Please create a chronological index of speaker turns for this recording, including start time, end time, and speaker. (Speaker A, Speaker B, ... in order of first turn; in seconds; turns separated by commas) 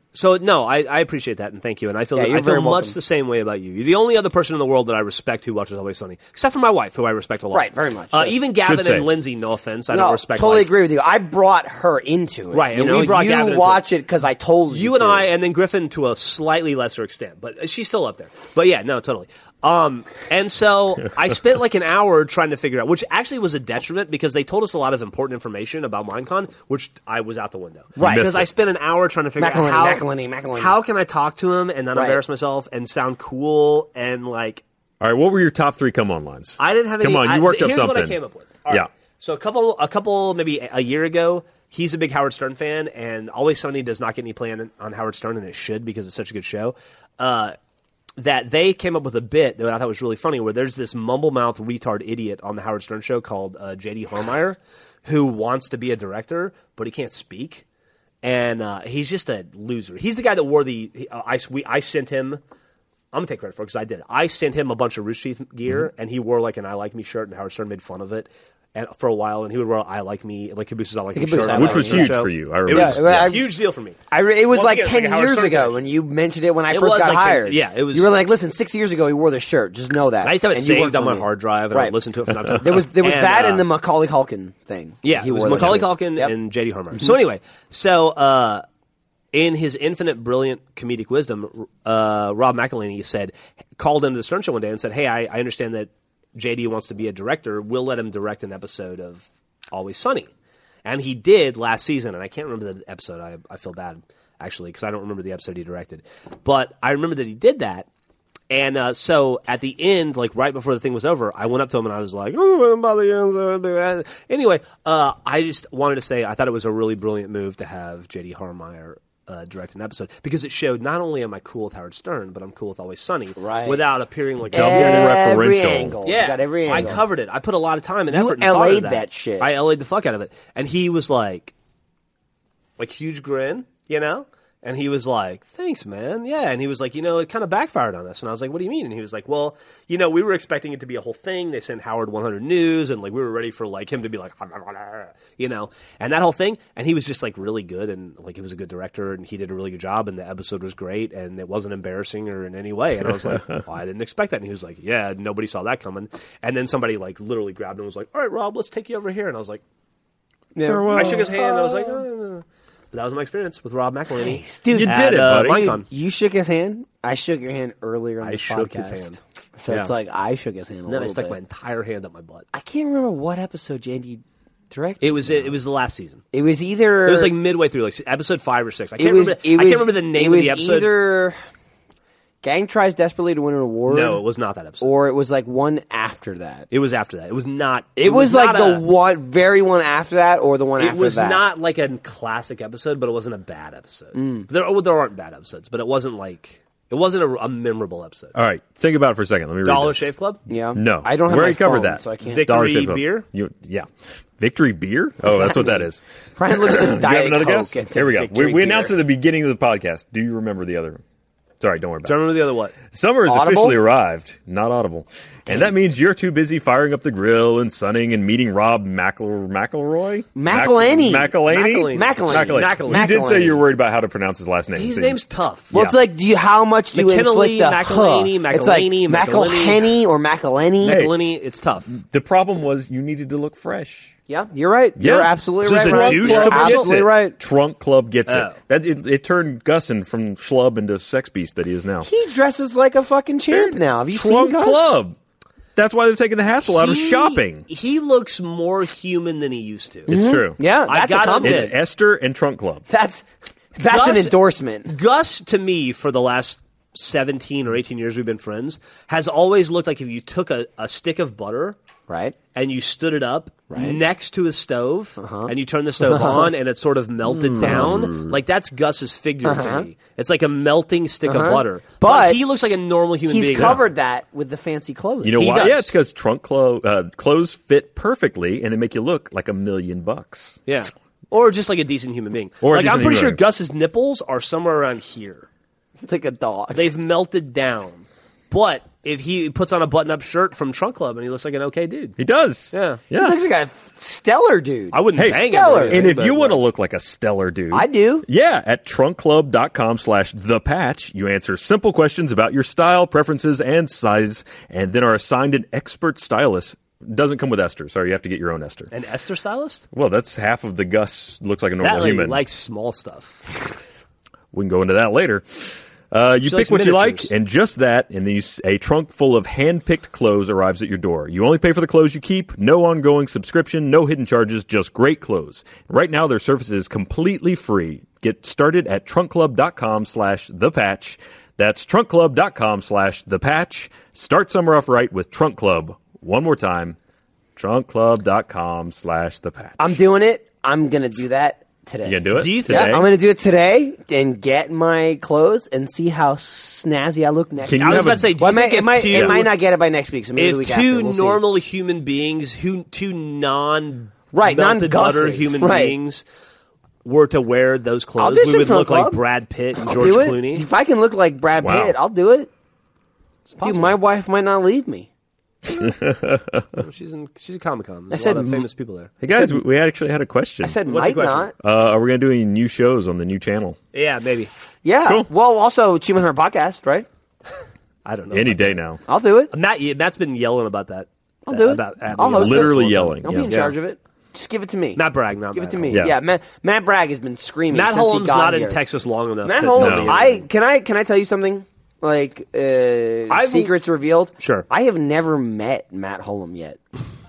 Speaker A: 0.1-10.8, Speaker B: 2.1-3.0, Speaker B: 7.5-8.4, Speaker C: 8.7-9.1, Speaker B: 9.9-15.3, Speaker A: 12.5-13.8, Speaker A: 14.7-34.6, Speaker B: 28.0-28.4, Speaker C: 28.0-28.5, Speaker B: 29.4-30.8, Speaker B: 31.9-32.2, Speaker C: 35.0-38.2, Speaker A: 36.6-47.5, Speaker A: 48.2-57.6, Speaker A: 58.2-62.4, Speaker A: 63.1-74.0, Speaker B: 71.1-73.5, Speaker C: 71.5-73.4, Speaker B: 74.1-82.0, Speaker A: 74.5-75.8, Speaker A: 76.7-78.1, Speaker A: 80.2-83.7, Speaker B: 82.5-86.3, Speaker A: 85.0-88.6, Speaker C: 85.5-85.8, Speaker A: 89.3-100.3, Speaker A: 100.8-107.9, Speaker A: 108.5-125.2, Speaker B: 123.4-123.8, Speaker C: 124.5-126.0, Speaker B: 124.5-127.0, Speaker A: 126.0-131.5, Speaker B: 128.1-129.5, Speaker A: 132.8-159.6, Speaker C: 153.3-153.6, Speaker B: 160.6-162.0, Speaker C: 160.6-161.4, Speaker A: 160.9-165.9, Speaker B: 164.2-171.4, Speaker C: 164.7-165.7, Speaker A: 168.2-169.2, Speaker A: 170.9-172.5, Speaker B: 172.5-175.0, Speaker A: 175.0-176.2, Speaker B: 176.3-177.3, Speaker A: 177.1-180.9, Speaker B: 179.0-181.4, Speaker B: 182.4-184.2, Speaker A: 183.9-184.9, Speaker B: 184.8-186.7, Speaker A: 186.7-188.8, Speaker B: 188.0-191.4, Speaker A: 190.8-198.3, Speaker B: 194.1-194.5, Speaker C: 198.3-200.1, Speaker A: 199.6-200.4, Speaker B: 200.5-202.5, Speaker C: 200.7-206.0, Speaker A: 202.2-203.3, Speaker B: 205.2-209.0, Speaker C: 206.5-211.0, Speaker C: 211.6-212.3, Speaker A: 212.0-212.8, Speaker C: 212.9-225.2, Speaker B: 213.3-213.8, Speaker B: 220.3-223.6, Speaker A: 221.5-223.5, Speaker A: 224.8-225.7, Speaker B: 225.7-231.1, Speaker C: 225.7-226.0, Speaker A: 226.9-229.9, Speaker A: 230.8-231.9, Speaker C: 230.9-231.2, Speaker C: 231.9-234.1, Speaker B: 234.3-237.4, Speaker C: 235.0-242.1, Speaker A: 235.6-237.0, Speaker A: 238.3-238.6, Speaker B: 242.0-244.9, Speaker C: 243.5-245.2, Speaker C: 245.8-247.7, Speaker A: 246.7-250.2, Speaker C: 250.1-250.6, Speaker B: 250.1-251.7, Speaker A: 250.9-251.8, Speaker C: 251.4-252.9, Speaker B: 252.9-253.2, Speaker B: 253.8-254.9, Speaker A: 253.9-254.4, Speaker A: 254.9-261.8, Speaker B: 262.1-262.4, Speaker A: 262.5-273.8, Speaker B: 263.7-264.0, Speaker B: 265.2-266.5, Speaker C: 267.3-268.4, Speaker B: 269.4-269.9, Speaker B: 271.3-272.4, Speaker B: 273.3-275.8, Speaker C: 273.6-273.8, Speaker C: 275.2-280.6, Speaker A: 275.4-275.9, Speaker A: 280.7-285.5, Speaker C: 282.6-283.4, Speaker B: 286.0-286.9, Speaker A: 286.7-292.2, Speaker C: 292.2-293.4, Speaker A: 292.7-293.0, Speaker B: 293.1-296.1, Speaker A: 294.9-296.6, Speaker C: 295.2-308.9, Speaker B: 297.7-298.3, Speaker A: 308.9-309.9, Speaker C: 309.9-312.4, Speaker A: 311.8-313.4, Speaker C: 314.5-337.0, Speaker A: 316.4-317.3, Speaker C: 337.6-340.0, Speaker B: 339.8-351.4, Speaker C: 342.1-343.1, Speaker A: 342.3-343.0, Speaker C: 347.6-348.3, Speaker A: 347.8-349.6, Speaker C: 349.1-349.4, Speaker A: 350.4-356.2, Speaker B: 354.3-356.0, Speaker A: 357.0-360.7, Speaker B: 358.2-359.2, Speaker B: 359.8-362.5, Speaker C: 361.6-362.0, Speaker A: 363.5-363.9, Speaker B: 363.6-365.1, Speaker C: 365.7-366.8, Speaker A: 366.8-369.1, Speaker B: 368.1-368.7, Speaker C: 369.2-370.8, Speaker B: 369.3-369.6, Speaker B: 370.6-371.5, Speaker A: 370.9-371.5, Speaker C: 371.6-373.8, Speaker A: 373.9-374.5, Speaker B: 374.8-377.1, Speaker A: 378.1-378.8, Speaker C: 378.3-379.0, Speaker B: 379.1-379.5, Speaker A: 379.5-383.8, Speaker B: 381.5-388.8, Speaker C: 382.3-383.5, Speaker A: 385.0-386.1, Speaker A: 387.7-390.4, Speaker B: 389.4-396.8, Speaker C: 389.8-390.2, Speaker A: 393.3-393.7, Speaker A: 394.4-394.7